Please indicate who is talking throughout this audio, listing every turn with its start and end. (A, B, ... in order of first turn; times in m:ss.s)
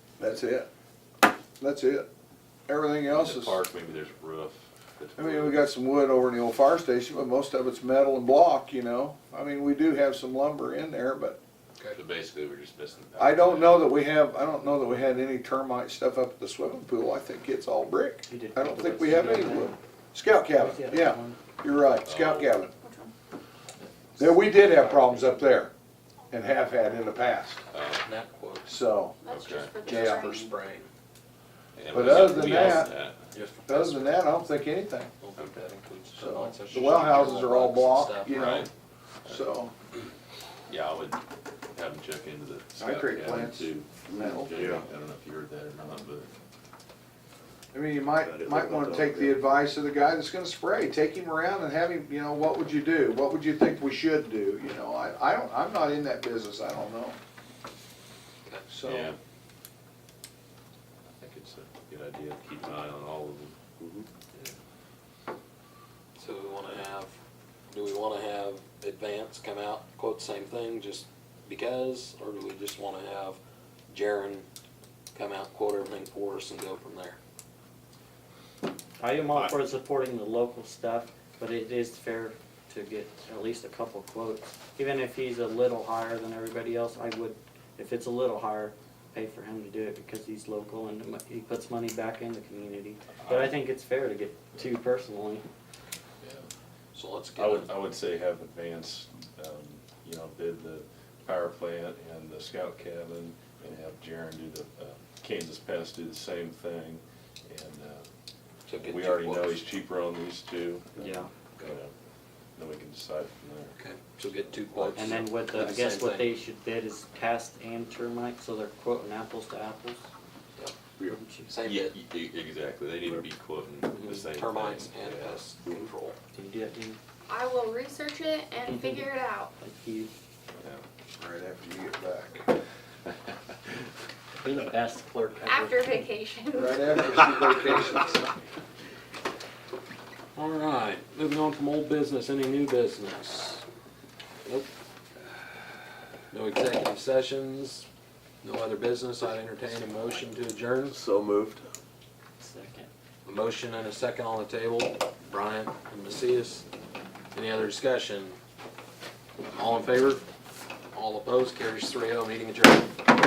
0:00.2-0:00.7 A
0:01.6-0:02.1 A
0:02.7-0:03.6 A
0:03.1-0:05.6 B
0:05.2-0:11.4 A
0:11.9-0:14.0 B
0:13.2-0:22.7 A
0:18.3-0:19.8 C
0:20.5-0:21.4 C
0:22.0-0:22.6 B
0:24.2-0:25.7 A
0:24.5-0:25.4 D
0:26.3-0:27.6 A
0:27.7-0:28.0 B
0:28.0-0:28.7 D
0:28.6-0:29.2 A
0:29.2-0:30.5 E
0:29.3-0:29.8 B
0:29.8-0:30.4 A
0:29.8-0:30.9 D
0:31.7-0:33.2 B
0:31.9-0:32.9 A
0:32.0-0:34.2 D
0:33.7-0:35.1 A
0:35.2-0:38.6 D
0:36.1-0:38.7 A
0:38.3-0:38.7 B
0:39.2-0:39.7 A
0:40.7-0:41.2 B
0:41.7-0:46.3 B
0:42.8-0:44.6 A
0:44.1-0:44.8 F
0:47.7-0:57.2 A
0:48.1-0:49.4 F
0:58.7-0:59.1 A
0:58.8-0:59.2 B
1:01.2-1:03.7 B
1:06.2-1:07.1 D
1:07.7-1:14.5 D
1:15.1-1:17.2 D
1:19.0-1:35.4 C
1:33.2-1:33.5 B
1:36.2-1:36.5 B
1:36.9-1:37.7 D
1:37.4-1:48.0 B
1:48.6-1:49.6 D
1:48.8-1:51.9 B
1:51.0-1:51.3 C
1:52.6-1:53.8 B
1:53.8-1:56.3 D
1:54.3-1:55.1 B
1:54.9-2:00.1 C
2:01.1-2:01.5 C
2:01.5-2:01.9 D
2:01.6-2:05.8 B
2:03.9-2:04.2 C
2:04.3-2:06.2 D
2:06.3-2:07.0 C
2:07.3-2:09.5 E
2:08.7-2:09.0 C
2:09.6-2:10.1 C
2:10.6-2:10.8 B
2:11.2-2:12.4 A
2:14.4-2:16.0 C
2:15.4-2:17.5 E
2:16.5-2:18.3 A
2:20.3-2:23.6 D
2:26.3-2:27.8 D
2:28.4-2:31.0 D
2:30.9-2:31.6 F
2:32.4-2:32.9 C
2:33.2-2:36.6 D
2:37.3-2:38.4 D
2:39.5-2:40.2 D
2:40.9-2:43.0 D